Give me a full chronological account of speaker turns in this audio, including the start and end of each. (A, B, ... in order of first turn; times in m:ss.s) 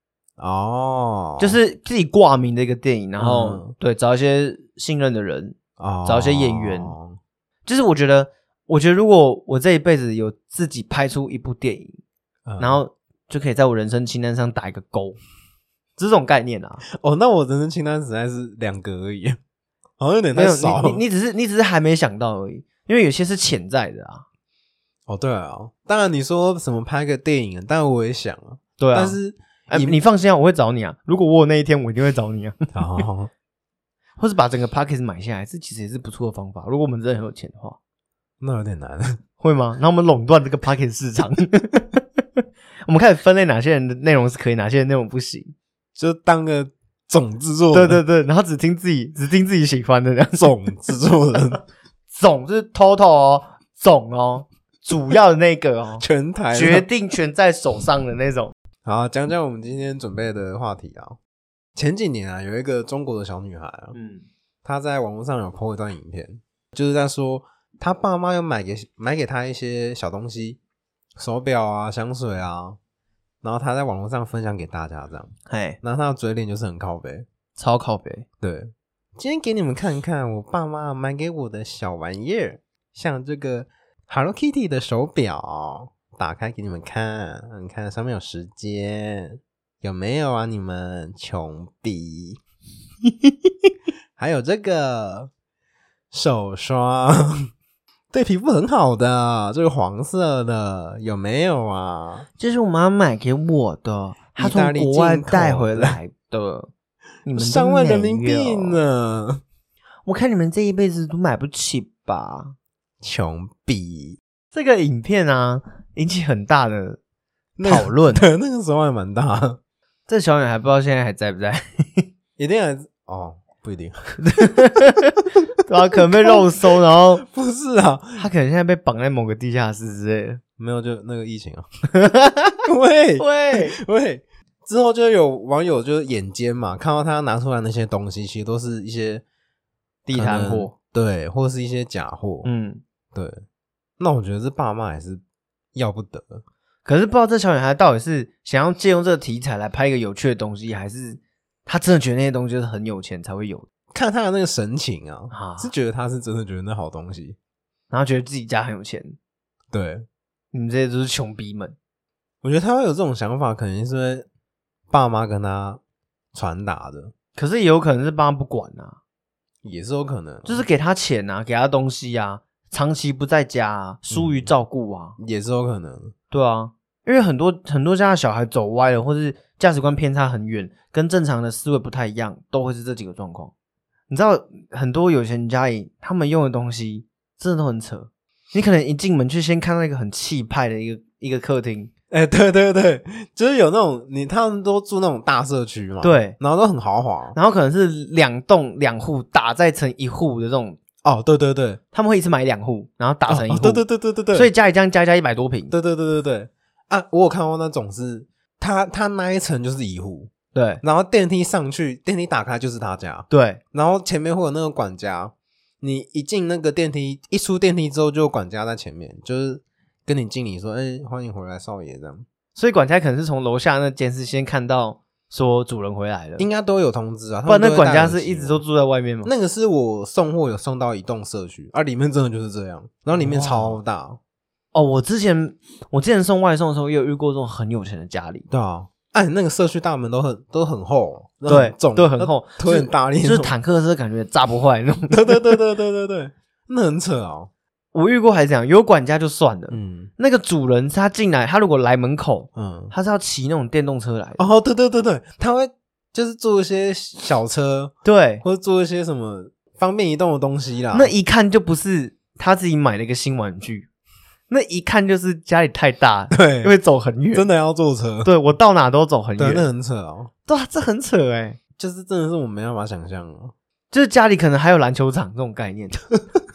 0:00.4-0:01.6 A
0:01.4-0:07.0 B
0:03.2-0:03.7 A
0:05.8-0:07.2 A
0:07.6-0:12.0 B
0:12.4-0:12.8 A
0:12.6-0:15.2 B
0:16.0-0:16.8 B
0:16.9-0:19.4 A
0:20.0-0:21.0 A
0:20.3-0:24.2 B
0:25.1-0:30.0 A
0:28.8-0:29.2 B
0:29.7-0:33.0 B
0:32.7-0:33.3 A
0:34.2-0:37.8 B
0:38.4-0:39.2 A
0:39.4-0:45.5 B
0:46.0-0:48.0 A
0:47.7-0:50.6 B
0:50.3-0:51.6 A
0:52.1-0:58.5 B
0:56.0-0:56.8 A
0:58.8-1:01.2 A
1:01.7-1:04.0 A
1:03.9-1:04.2 B
1:04.6-1:10.6 A
1:11.2-1:12.8 A
1:13.4-1:17.2 A
1:15.5-1:15.8 B
1:17.6-1:18.2 B
1:18.4-1:32.4 A
1:34.2-1:35.3 A
1:36.1-1:37.5 A
1:38.1-1:42.3 A
1:42.4-1:46.7 B
1:44.4-1:46.0 A
1:47.2-1:48.8 B
1:47.3-1:49.4 A
1:50.0-1:52.5 B
1:53.0-1:54.2 A
1:54.5-1:57.0 B
1:57.6-1:59.6 A
1:57.6-1:58.2 B
2:00.1-2:02.1 B
2:02.4-2:04.2 A
2:04.2-2:07.2 B
2:06.0-2:06.4 A
2:07.2-2:08.3 A
2:08.2-2:10.4 B
2:10.6-2:11.6 A
2:12.0-2:12.6 B
2:12.6-2:19.2 A
2:13.2-2:13.8 B
2:20.0-2:20.7 B
2:20.1-2:22.5 A
2:22.4-2:22.8 B
2:23.1-2:23.4 A
2:24.0-2:25.2 A
2:25.7-2:26.4 A
2:26.8-2:33.7 B
2:33.9-2:37.4 A
2:35.3-2:35.7 B
2:37.9-2:39.2 B
2:39.7-2:40.0 A
2:40.5-2:41.8 B
2:42.4-2:44.2 A
2:44.9-2:45.8 A
2:46.3-2:47.1 A
2:47.4-2:49.0 B
2:49.6-2:50.6 A
2:50.4-2:55.2 B
2:54.1-2:54.5 A
2:55.2-2:56.1 A
2:56.3-3:03.5 B
3:04.1-3:11.9 B
3:12.1-3:17.4 A
3:16.0-3:16.4 B
3:17.3-3:20.8 B
3:21.0-3:21.8 A
3:21.9-3:25.7 B
3:23.3-3:24.5 A
3:25.7-3:30.3 A
3:30.5-3:30.8 B
3:30.8-3:42.2 A
3:33.3-3:33.6 B
3:42.6-3:46.5 B
3:46.4-3:48.6 A
3:47.5-3:49.3 B
3:49.2-3:54.2 A
3:53.1-3:53.8 B
3:54.7-3:58.4 B
3:58.5-4:03.5 A
4:01.5-4:05.6 B
4:05.1-4:07.5 A
4:07.9-4:14.4 B
4:09.7-4:10.1 A
4:12.5-4:12.9 A
4:14.4-4:21.1 A
4:18.0-4:18.4 B
4:20.9-4:23.9 B
4:24.5-4:27.4 B
4:26.3-4:26.7 A
4:27.3-4:28.3 A
4:28.2-4:29.6 B
4:29.4-4:30.3 A
4:30.5-4:31.6 B
4:31.8-4:33.5 A
4:33.9-4:36.0 B